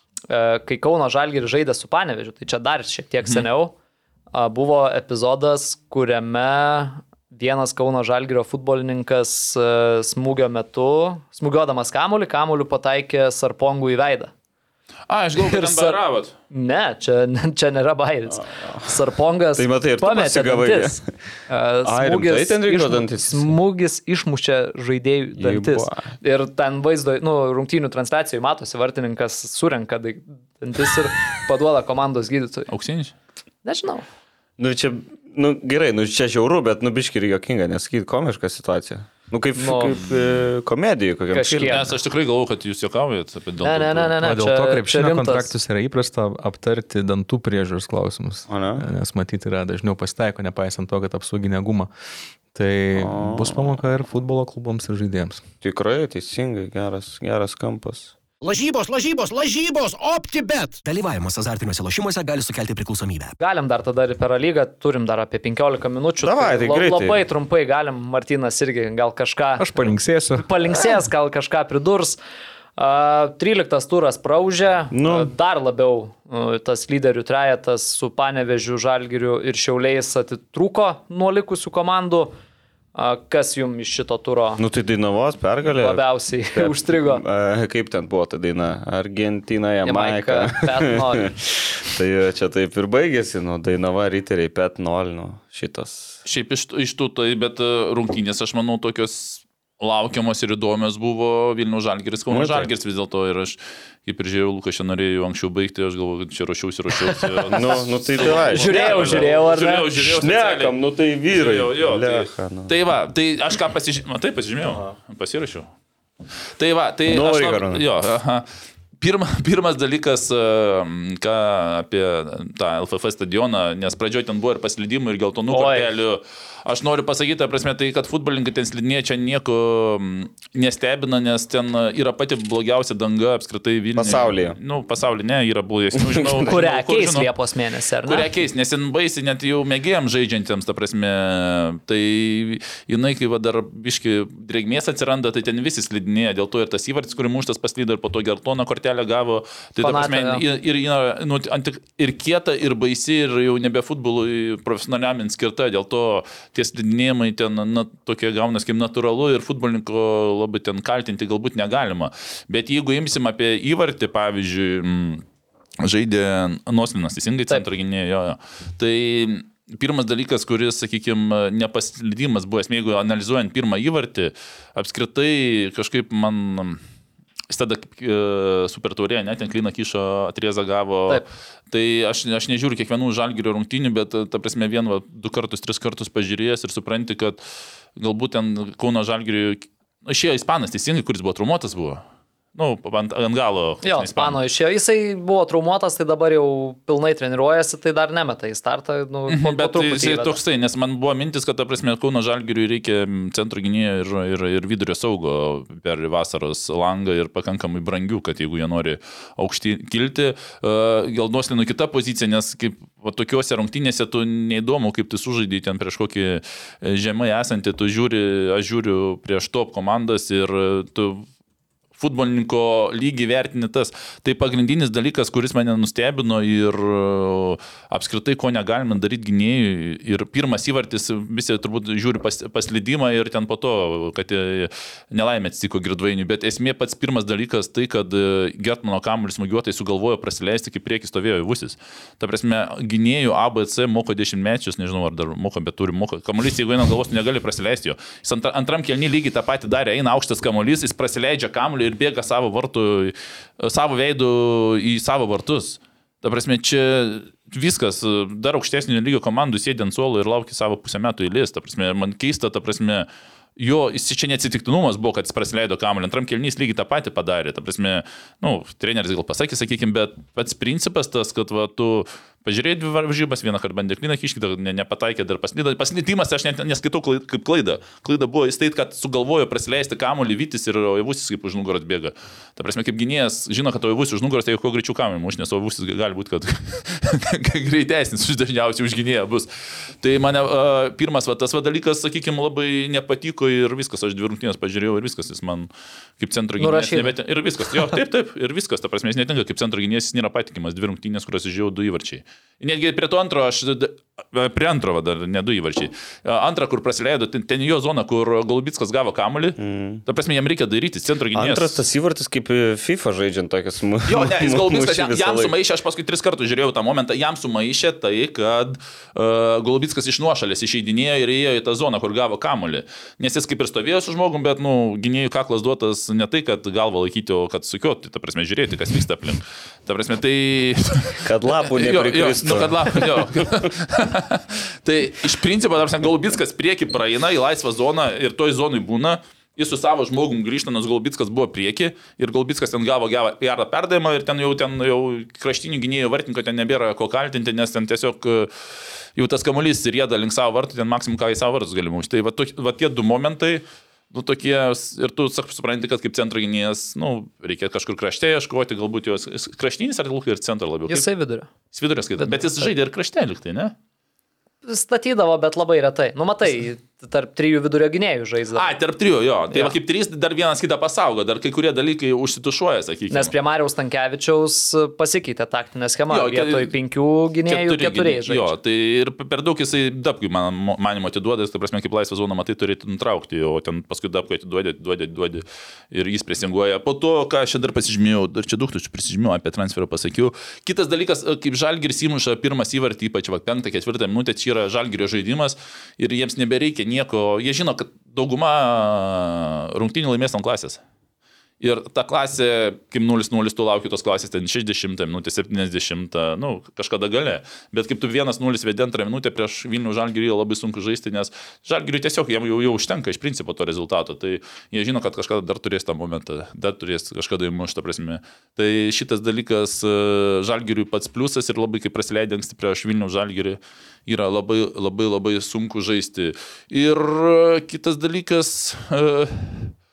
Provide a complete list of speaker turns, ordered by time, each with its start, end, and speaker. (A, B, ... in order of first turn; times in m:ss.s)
0:00.3-0:03.7 A
0:04.3-0:14.3 A
0:15.1-0:16.3 B
0:15.4-0:32.7 A
0:18.6-0:18.8 C
0:19.6-0:21.1 C
0:21.8-0:23.5 C
0:25.4-0:26.1 C
0:32.7-0:33.1 B
0:33.6-0:34.0 A
0:34.6-0:41.8 C
0:39.6-0:40.0 A
0:40.0-0:40.4 B
0:41.3-0:42.0 A
0:41.6-0:44.1 B
0:43.6-0:45.5 A
0:44.2-0:51.9 D
0:48.5-0:48.8 C
0:52.5-0:55.4 D
0:53.0-0:53.8 C
0:55.6-0:58.1 C
0:58.4-1:00.8 E
1:00.8-1:03.3 F
1:03.4-1:09.7 A
1:06.2-1:07.2 C
1:09.6-1:10.5 D
1:10.4-1:12.2 A
1:12.8-1:22.3 A
1:14.9-1:15.3 C
1:22.9-1:24.6 A
1:24.6-1:26.0 C
1:25.6-1:27.2 A
1:26.6-1:36.2 C
1:29.8-1:31.3 A
1:36.2-1:50.8 B
1:42.3-1:42.7 C
1:47.4-1:52.7 C
1:48.5-1:49.9 A
1:51.3-1:55.7 B
1:56.6-1:58.5 B
1:57.1-1:57.8 C
1:59.0-2:17.3 B
2:05.5-2:05.9 A
2:14.0-2:14.6 C
2:16.0-2:16.4 C
2:16.4-2:18.3 A
2:18.0-2:45.2 B
2:29.8-2:30.4 A
2:45.8-2:56.8 B
2:57.5-3:07.4 B
3:08.0-3:12.0 B
3:12.5-3:14.4 B
3:13.8-3:20.4 A
3:19.3-3:41.2 B
3:42.0-4:49.5 B
4:50.0-5:11.8 B
4:56.6-4:57.1 A
5:09.6-5:10.0 C
5:11.3-5:15.5 C
5:14.0-5:48.5 B
5:31.2-5:33.7 C
5:49.2-6:01.0 B
6:00.9-6:01.5 A
6:01.7-6:03.7 B
6:02.2-6:02.6 A
6:04.6-6:08.7 A
6:08.5-6:13.3 B
6:09.5-6:09.8 A
6:13.1-6:18.5 A
6:16.1-6:16.7 B
6:17.5-6:40.8 B
6:41.6-7:09.7 B